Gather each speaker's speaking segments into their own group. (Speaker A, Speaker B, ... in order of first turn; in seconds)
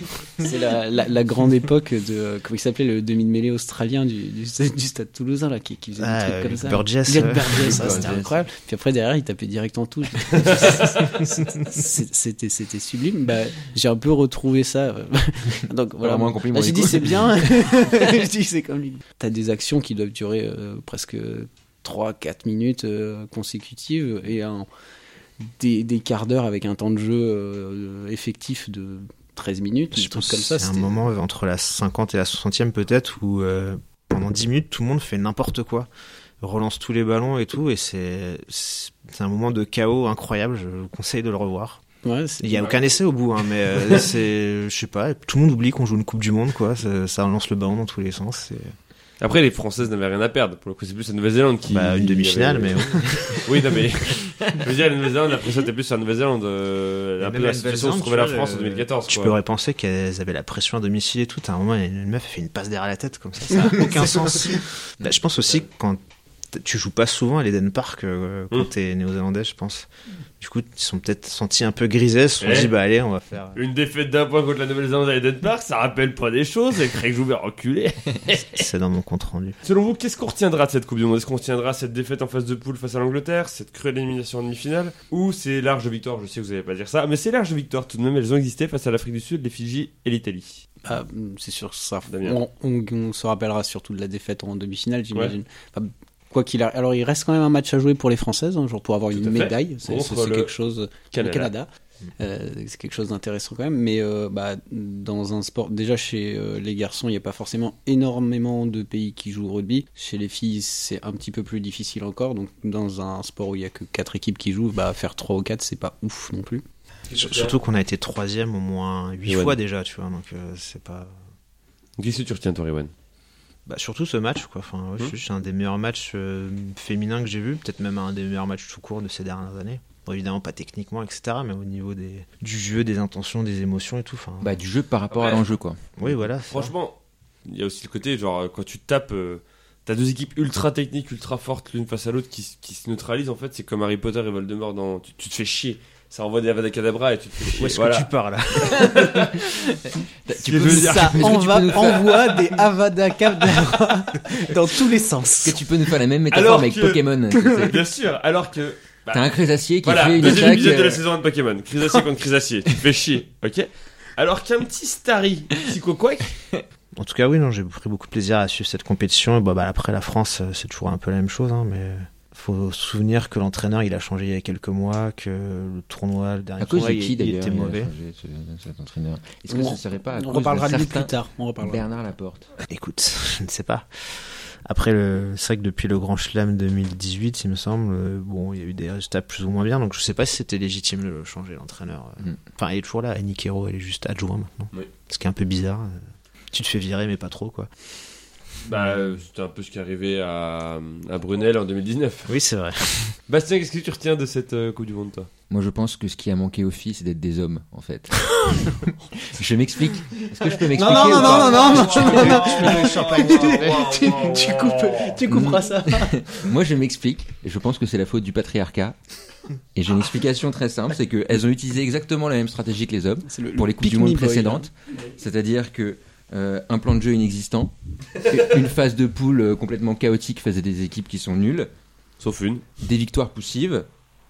Speaker A: 0.4-24.7, 25.4-30.9, 42.0-42.8, 90.8-101.7, 102.2-116.6, 150.7-155.6, 179.5-181.8, 210.7-216.2, 223.3-224.7
Speaker B: 6.0-8.2, 29.9-35.9, 36.4-41.8, 42.4-48.7, 51.7-53.8, 57.2-66.0, 66.5-69.9, 70.4-73.6, 78.5-79.6, 117.2-121.1, 123.7-134.5, 136.0-136.7, 147.5-149.4, 167.0-177.9, 182.7-196.0, 196.5-197.7, 202.3-203.2, 211.9-214.1
Speaker C: 7.5-8.4, 16.0-17.5, 134.4-135.8, 150.2-152.4, 155.4-157.8, 159.1-161.0, 176.6-182.5, 205.5-212.4, 215.3-219.0, 219.8-231.7, 232.8-233.9
Speaker D: 10.5-10.9, 49.2-59.4, 72.4-72.7, 73.5-78.7, 79.6-90.6, 92.1-92.4, 99.1-100.5, 101.1-101.5, 117.1-117.6, 119.2-119.5, 122.0-122.9, 135.1-135.4, 136.5-149.4, 150.4-151.8, 156.3-159.3, 159.8-166.3, 198.7-202.3, 203.3-205.3, 210.9-215.2, 232.2-232.7